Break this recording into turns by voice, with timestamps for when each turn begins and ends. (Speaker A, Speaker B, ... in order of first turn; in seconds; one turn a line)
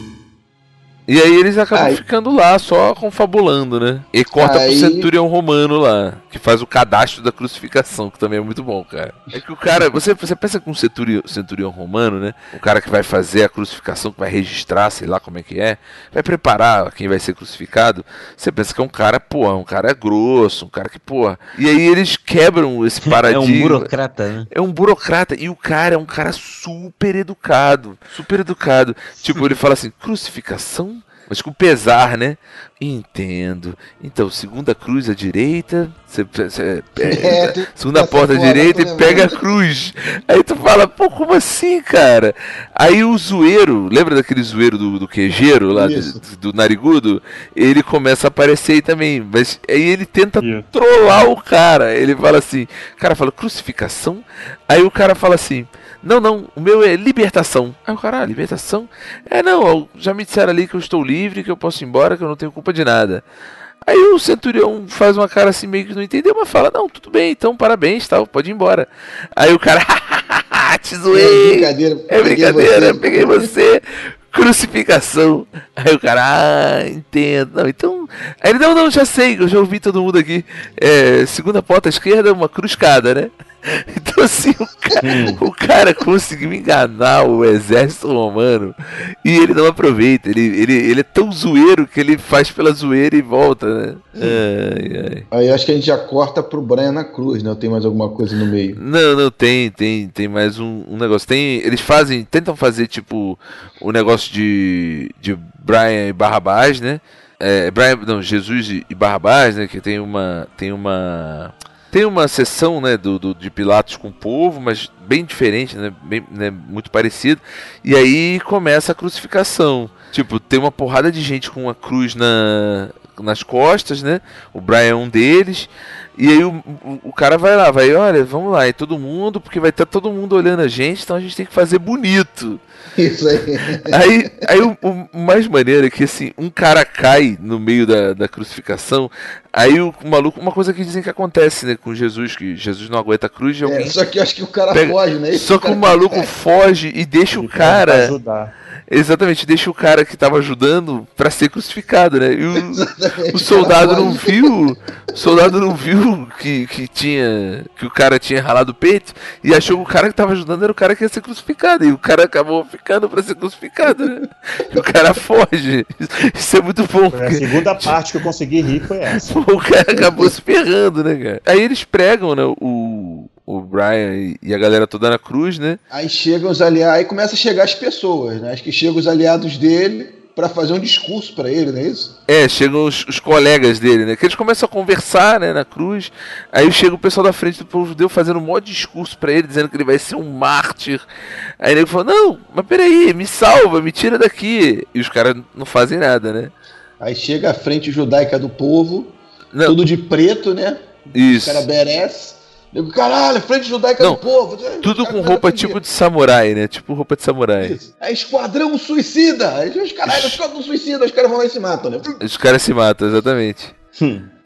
Speaker A: 1.1-23.9
Speaker B: 1.7-2.0
Speaker B: 4.3-5.1
Speaker C: 23.0-24.5
Speaker A: 24.5-63.2
Speaker B: 37.0-39.4
Speaker B: 45.7-46.1
Speaker D: 50.4-50.6
Speaker A: 63.8-95.3
Speaker B: 71.1-73.5
Speaker C: 85.0-85.3
Speaker B: 85.0-85.3
Speaker B: 95.3-98.8
Speaker A: 98.8-132.6
Speaker B: 132.9-134.0
Speaker A: 133.9-144.0
Speaker B: 143.6-146.3
Speaker A: 144.7-148.1
Speaker D: 147.3-148.5
Speaker A: 148.9-168.0
Speaker B: 152.5-154.5
Speaker D: 167.1-169.2
Speaker A: 169.1-175.8
Speaker B: 169.9-170.3
Speaker B: 175.9-182.1
Speaker A: 182.3-191.0
Speaker A: 191.6-196.5
Speaker B: 197.0-205.8
Speaker A: 199.5-199.8
Speaker A: 201.1-201.7
Speaker A: 204.8-207.8
Speaker B: 207.6-212.2
Speaker A: 210.1-210.4
Speaker A: 212.2-213.7
Speaker C: 214.0-214.3